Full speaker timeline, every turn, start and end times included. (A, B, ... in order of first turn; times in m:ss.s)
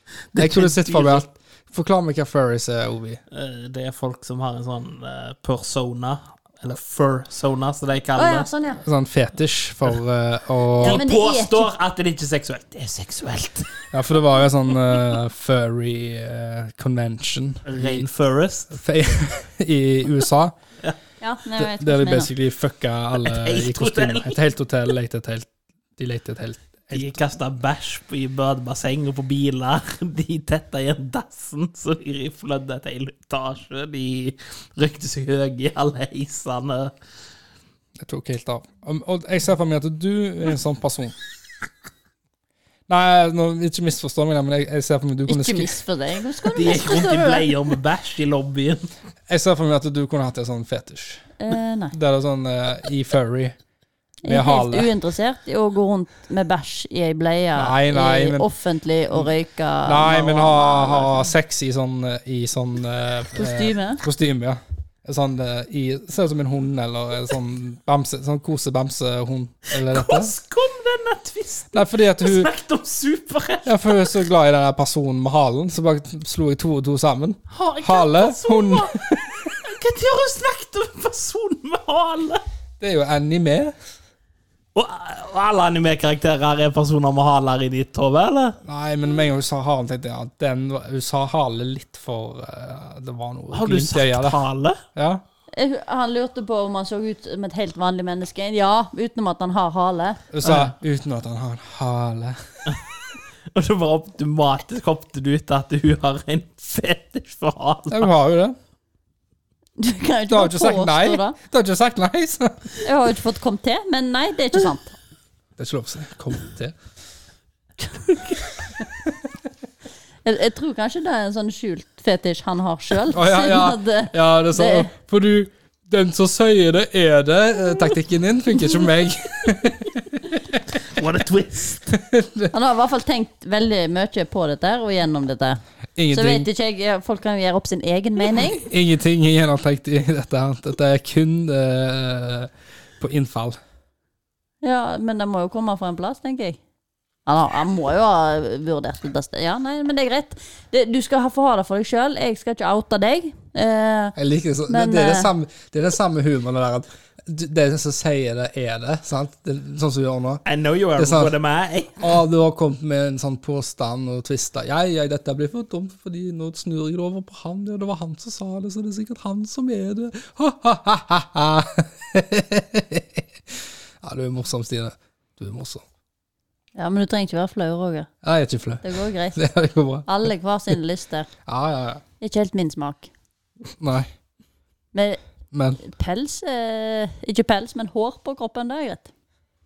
0:00.3-0:01.3 A
0:00.4-0:03.2 B
0:03.3-0:08.5 A
0:08.2-0:08.8 C
0:08.8-0:11.0 B
0:10.8-0:11.7 C
0:10.8-0:13.7 A
0:13.9-0:18.1 B
0:17.7-0:18.8 A
0:18.7-0:20.6 B
0:21.2-0:22.3 C
0:21.6-0:27.2 B
0:23.2-0:24.4 A
0:26.9-0:36.9 A
0:38.0-0:41.2 B
0:42.9-0:45.8 B
0:45.3-0:47.5 C
0:46.5-0:48.9 A
0:49.3-0:51.2 B
0:51.4-0:52.0 C
0:51.9-0:53.6 B
0:54.2-1:01.3 C
0:54.3-0:54.9 B
0:57.6-0:58.5 B
0:59.8-1:10.3 B
1:03.4-1:04.0 C
1:09.7-1:14.1 A
1:11.7-1:12.5 B
1:13.6-1:19.2 B
1:17.5-1:22.4 A
1:22.8-1:23.7 B
1:24.8-1:28.6 A
1:28.6-1:34.4 B
1:33.5-1:34.8 A
1:35.0-1:35.2 B
1:35.5-1:40.2 C
1:40.3-1:42.4 B
1:40.4-1:40.7 A
1:43.5-1:48.1 A
1:47.9-1:48.6 B
1:49.8-1:51.4 C
1:50.3-1:52.7 B
1:52.8-1:55.0 C
1:55.6-1:56.8 B
2:00.2-2:04.9 C
2:03.1-2:10.6 B
2:10.8-2:12.0 A
2:11.9-2:12.5 B
2:12.5-2:18.7 C
2:16.0-2:16.5 B
2:18.6-2:23.6 B
2:24.6-2:26.6 C
2:27.3-2:34.2 C
2:34.2-2:40.4 B
2:34.7-2:35.3 C
2:40.4-2:42.1 A
2:41.0-2:41.3 B
2:42.0-2:55.8 B
2:56.8-2:58.1 C
2:58.2-3:00.1 B
2:58.8-2:59.4 C
3:00.1-3:01.3 C
3:01.5-3:02.0 B
3:02.2-3:03.1 C
3:03.8-3:04.1 B
3:04.9-3:05.2 C
3:05.5-3:05.8 B
3:05.8-3:09.1 C